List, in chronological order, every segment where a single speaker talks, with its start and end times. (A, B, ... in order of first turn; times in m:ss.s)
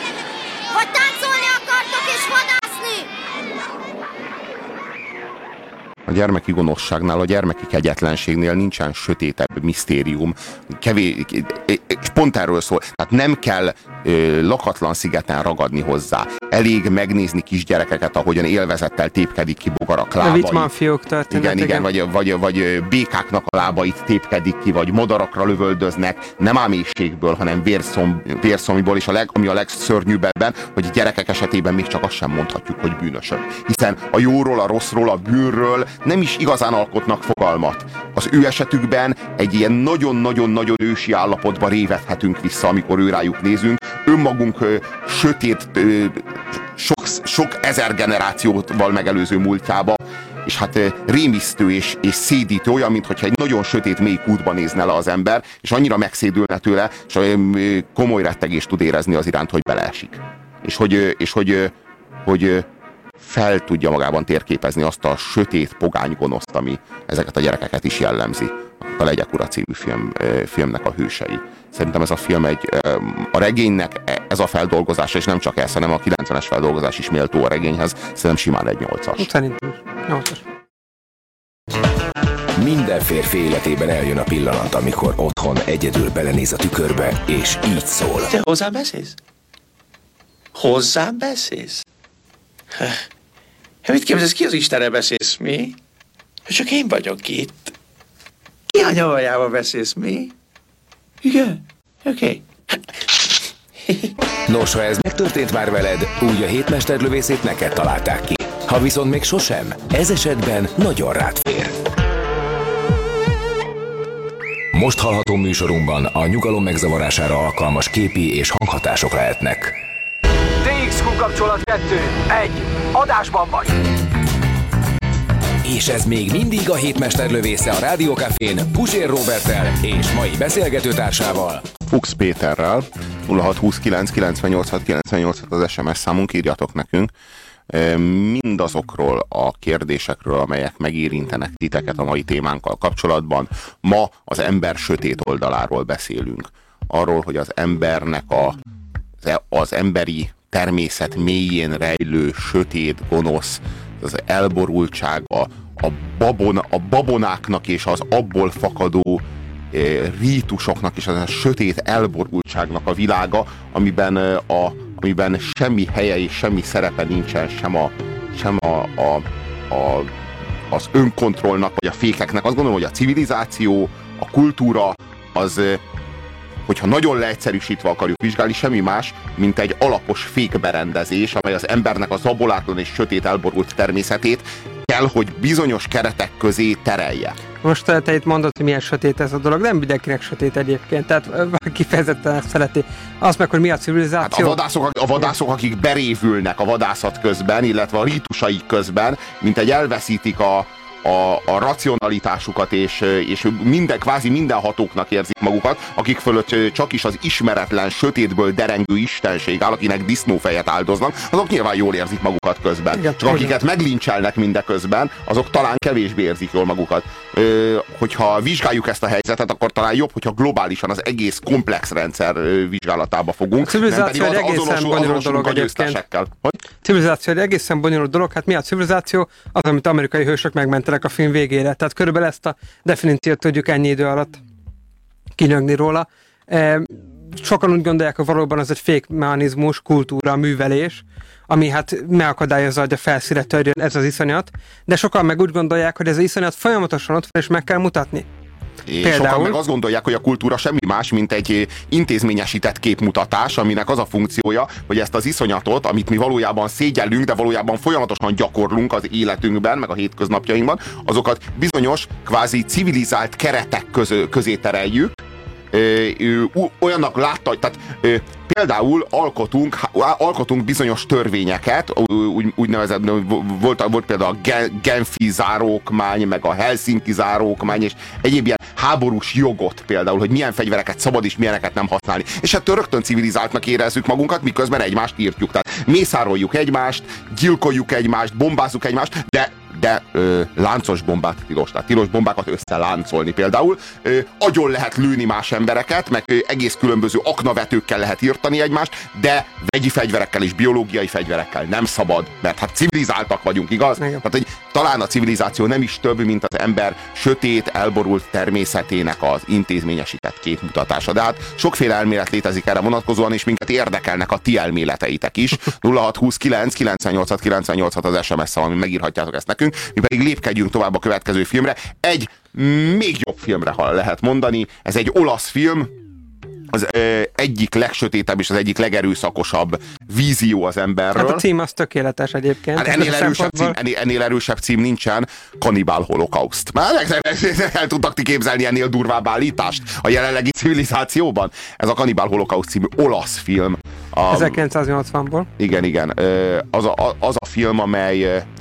0:00.8-0:03.1 A
0:06.1-0:20.7 B
0:20.2-0:21.9 C
0:21.3-1:01.7 B
1:02.2-1:02.7 B
1:03.2-1:19.3 B
1:19.2-1:20.4 C
1:22.6-1:28.3 D
1:28.3-1:29.2 E
1:30.5-1:31.8 E
1:32.8-1:33.0 E
1:33.8-1:35.8 E
1:36.5-1:37.7 E
1:38.7-1:40.3 E
1:41.2-1:42.5 E
1:44.5-1:51.7 D
1:54.7-1:59.8 D
2:00.6-2:03.8 F
2:05.6-2:11.7 D
2:11.9-2:17.1 B
2:17.7-2:28.6 B
2:29.2-2:50.2 B
2:50.7-2:55.8 B
2:56.6-3:07.4 B
3:07.6-3:14.6 C
3:14.2-3:46.6 B
3:33.0-3:33.6 C
3:43.6-3:46.0 C
3:46.8-3:54.4 C
3:55.4-4:08.3 C
4:08.9-5:25.9 B
4:09.0-4:09.6 C
5:04.0-5:04.2 C
5:26.7-5:31.4 B
5:31.2-5:33.8 C
5:32.8-5:44.6 B
5:44.3-5:45.5 C
5:45.6-5:48.5 B